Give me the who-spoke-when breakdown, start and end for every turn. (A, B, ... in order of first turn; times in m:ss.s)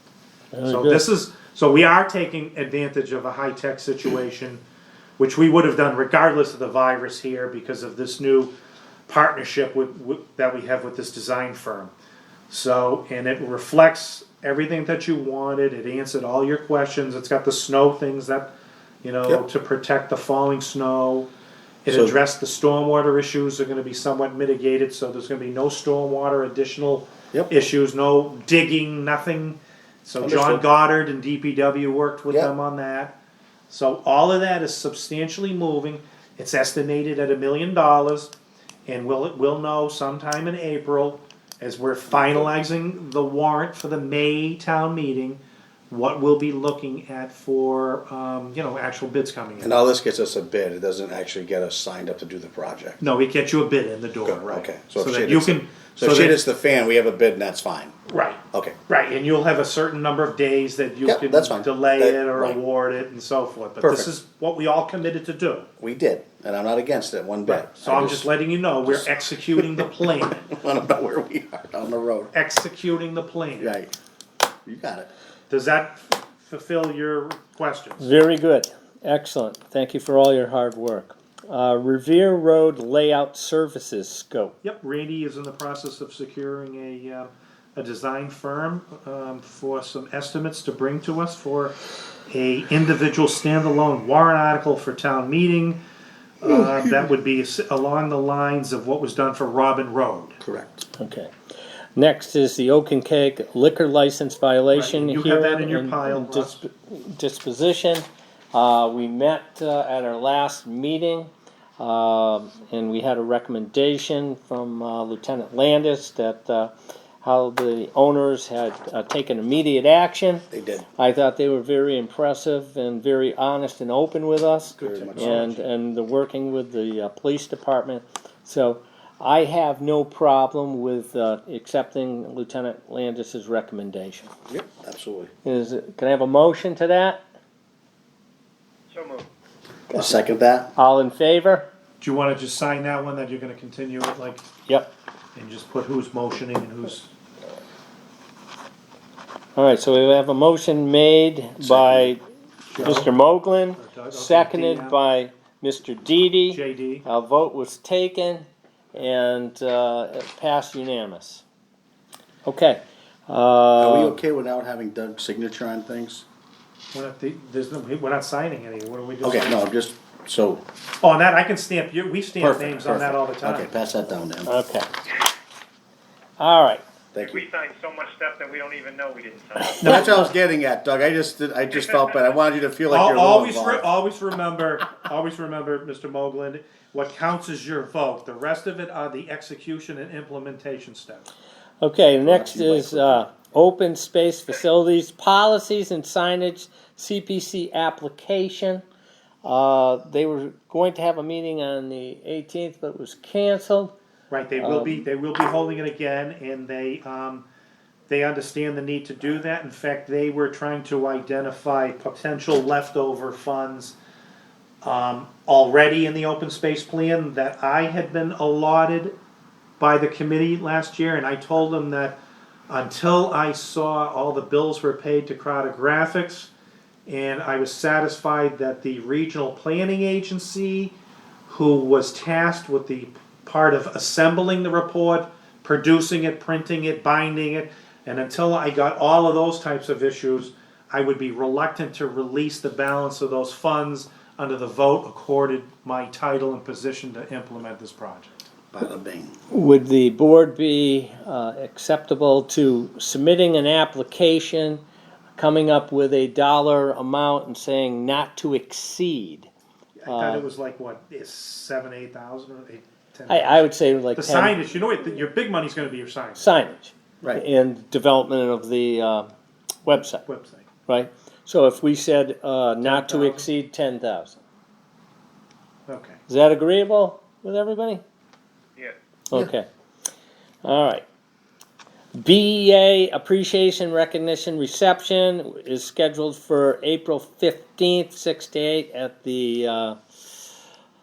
0:00.5-0:01.0 A
0:00.7-0:04.6 B
0:05.2-0:08.5 B
0:09.1-0:11.9 B
0:12.5-0:18.5 B
0:19.0-0:21.3 B
0:21.8-0:33.2 B
0:21.9-0:22.1 C
0:30.2-0:30.6 C
0:33.7-0:38.3 B
0:38.9-0:49.7 B
0:42.1-0:42.5 C
0:49.6-0:53.0 C
0:53.0-0:56.4 B
0:54.2-0:58.0 C
0:58.1-1:05.7 B
1:01.0-1:02.6 C
1:03.8-1:04.1 C
1:05.8-1:08.3 C
1:07.4-1:10.5 B
1:08.9-1:12.3 C
1:12.3-1:13.8 B
1:13.6-1:13.9 C
1:14.6-1:15.1 C
1:15.5-1:18.1 B
1:18.0-1:24.5 A
1:24.6-1:31.8 B
1:32.3-1:35.8 B
1:36.4-1:40.4 B
1:36.4-1:37.1 C
1:40.4-1:40.9 C
1:41.0-1:41.3 A
1:42.0-2:00.4 A
1:44.7-1:46.6 B
2:00.5-2:00.9 C
2:01.0-2:14.3 A
2:04.8-2:05.6 C
2:04.9-2:05.6 B
2:14.5-2:15.3 C
2:15.4-2:17.2 A
2:18.9-2:19.3 D
2:19.9-2:20.7 C
2:20.8-2:21.7 A
2:22.0-2:24.5 B
2:25.4-2:27.1 B
2:29.6-2:32.2 A
2:31.6-2:32.2 C
2:32.7-2:33.1 B
2:32.8-2:41.4 A
2:33.8-2:35.0 B
2:36.5-2:37.0 B
2:42.5-2:44.2 A
2:43.8-2:46.2 C
2:46.9-2:49.6 B
2:49.2-2:50.6 C
2:51.0-2:53.7 B
2:52.4-2:54.5 C
2:54.5-2:54.9 A
2:56.4-2:56.8 A
2:57.1-2:57.4 C
2:57.2-3:00.2 D
2:59.8-3:00.1 B
2:59.8-3:03.9 C
3:02.9-3:11.3 B
3:11.8-3:18.8 A
3:12.2-3:13.3 C
3:19.4-3:23.9 A
3:24.3-3:27.4 B
3:24.6-3:25.1 A
3:28.1-3:34.0 B
3:34.8-3:39.2 B
3:39.8-3:42.2 B
3:42.7-3:46.5 B
3:47.1-3:51.0 B
3:51.5-4:08.4 B
4:08.7-4:09.3 C
4:09.5-4:14.8 A
4:15.4-4:19.5 A
4:20.0-4:26.5 B
4:20.1-4:20.5 A
4:23.3-4:24.6 A
4:26.4-4:29.3 A
4:29.8-4:30.2 A
4:30.2-4:30.7 B
4:30.9-4:34.4 A
4:32.8-4:33.5 B
4:35.9-4:36.2 B
4:36.3-4:38.0 A
4:39.3-4:39.7 A
4:40.6-4:41.0 A
4:42.2-4:50.5 A